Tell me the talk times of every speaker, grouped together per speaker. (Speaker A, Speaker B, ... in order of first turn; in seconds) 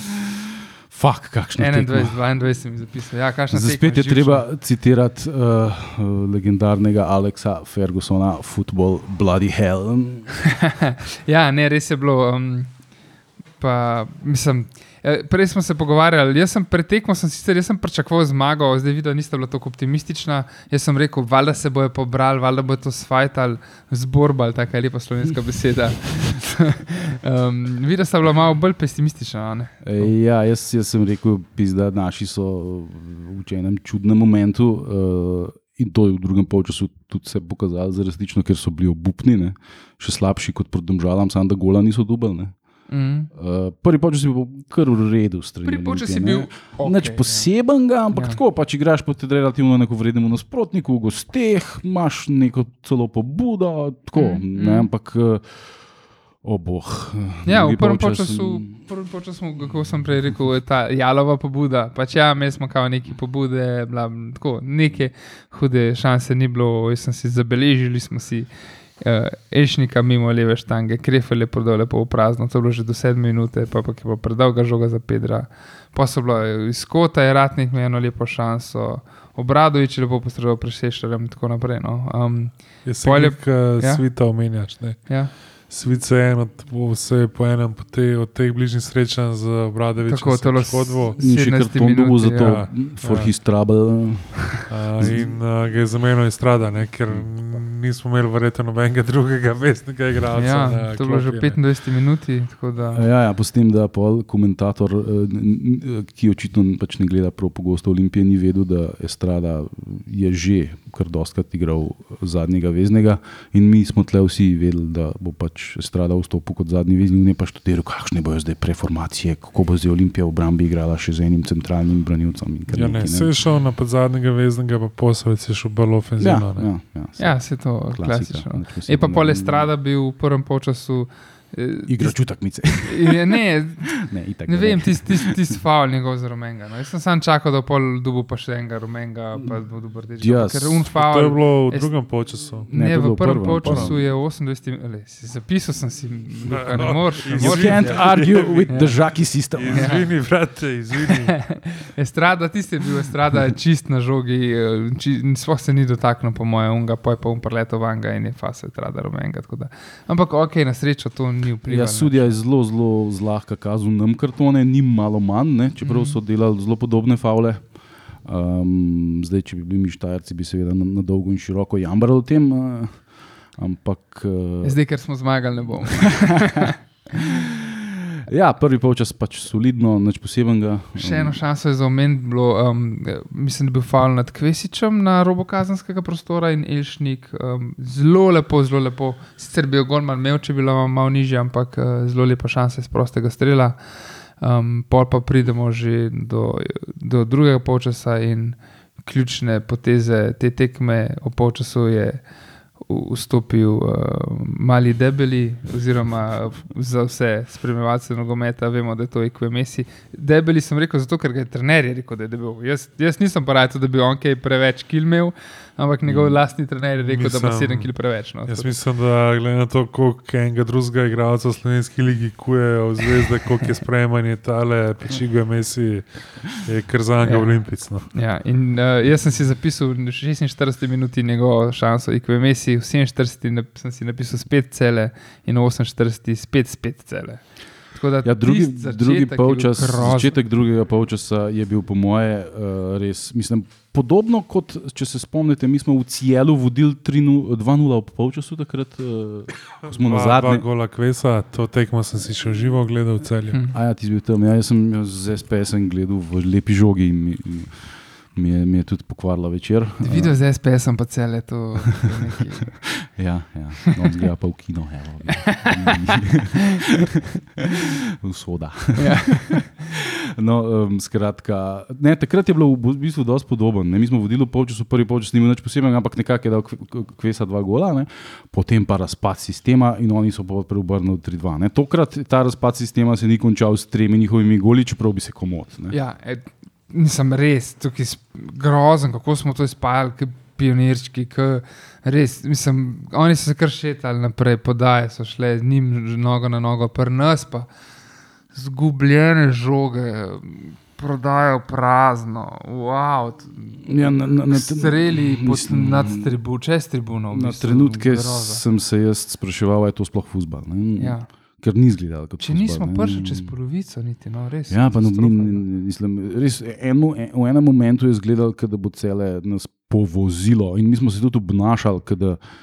Speaker A: 0.9-2.2, 3.5-10.5, 29.8-42.5, 43.3-55.7, 56.4-58.8, 91.2-95.4, 97.1-97.4, 102.9-123.3, 126.2-129.7, 131.9-133.2, 133.9-135.3, 140.2-140.9, 142.7-144.0, 147.3-150.1, 161.7-175.0, 178.3-181.4, 216.1-216.4, 238.2-250.7, 253.7-260.4, 263.1-266.9, 268.2-286.0, 303.8-306.3, 307.3-313.5, 314.7-322.4
Speaker B: 1.6-4.5, 10.5-12.8, 13.6-30.1, 42.9-43.3, 45.6-47.5, 48.1-48.4, 54.1-54.9, 57.4-85.3, 90.0-92.6, 100.3-103.0, 127.2-149.0, 149.7-150.4, 151.1-162.4, 165.8-166.2, 174.6-176.7, 181.0-202.3, 202.8-218.8, 227.2-240.4, 260.0-263.0, 269.0-269.7, 285.9-297.7, 298.5-308.6, 311.0-311.3, 312.4-315.7
Speaker C: 82.8-91.2, 92.4-93.5, 94.6-101.6, 122.7-126.7, 140.9-142.7, 143.6-144.0, 146.5-151.6, 217.0-228.1, 249.8-253.6